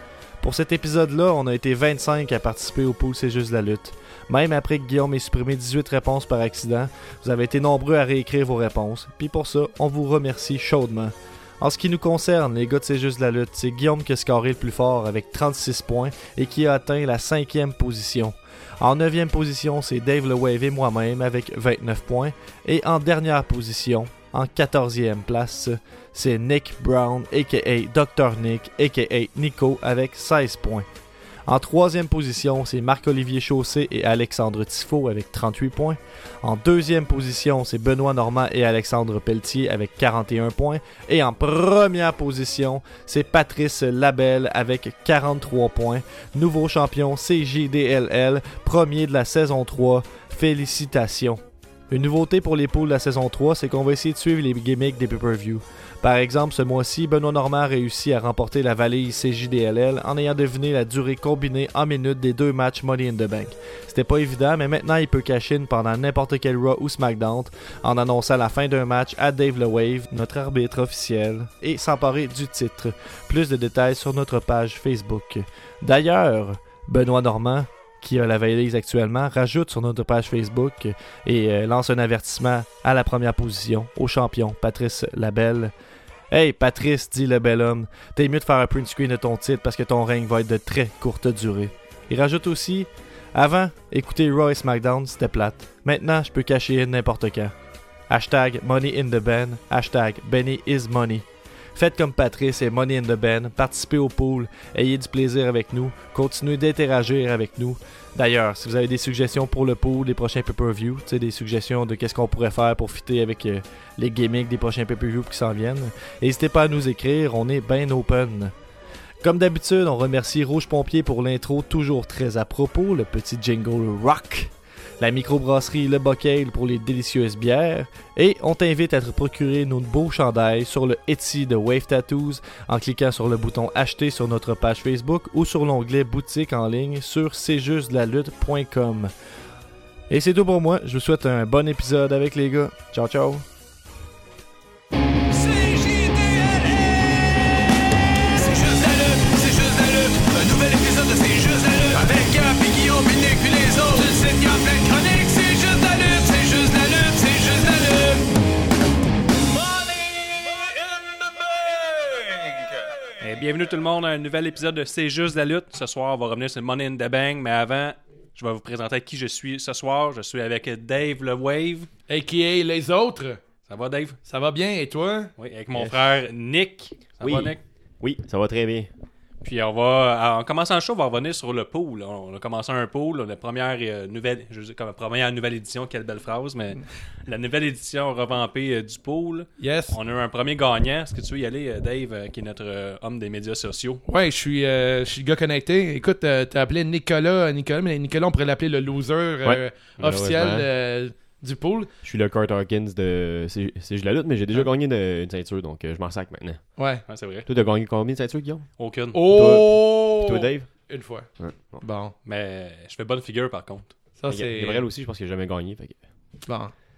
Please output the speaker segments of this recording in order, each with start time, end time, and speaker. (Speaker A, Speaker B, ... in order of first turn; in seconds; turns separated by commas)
Speaker A: 0.4-30.9, Speaker A: 31.5-85.7, Speaker A: 86.3-97.5, Speaker A: 98.1-118.5, Speaker A: 119.2-139.1, Speaker A: 140.1-143.4, Speaker B: 145.3-147.5, Speaker B: 148.3-158.3, Speaker B: 159.6-162.7, Speaker C: 163.2-171.9, Speaker D: 172.1-173.4, Speaker C: 173.7-174.2, Speaker D: 174.2-175.3, Speaker C: 175.4-177.6, Speaker E: 177.2-178.9, Speaker C: 179.4-194.0, Speaker D: 189.6-190.0, Speaker D: 194.1-201.9, Speaker E: 199.4-200.7, Speaker E: 202.0-206.8, Speaker D: 206.8-207.0, Speaker C: 207.1-207.5, Speaker E: 207.5-210.7, Speaker C: 208.8-209.2, Speaker D: 209.1-211.3, Speaker E: 211.4-211.8, Speaker D: 211.8-212.1, Speaker C: 212.2-213.9, Speaker D: 214.2-214.9, Speaker E: 214.3-216.0, Speaker D: 216.5-216.7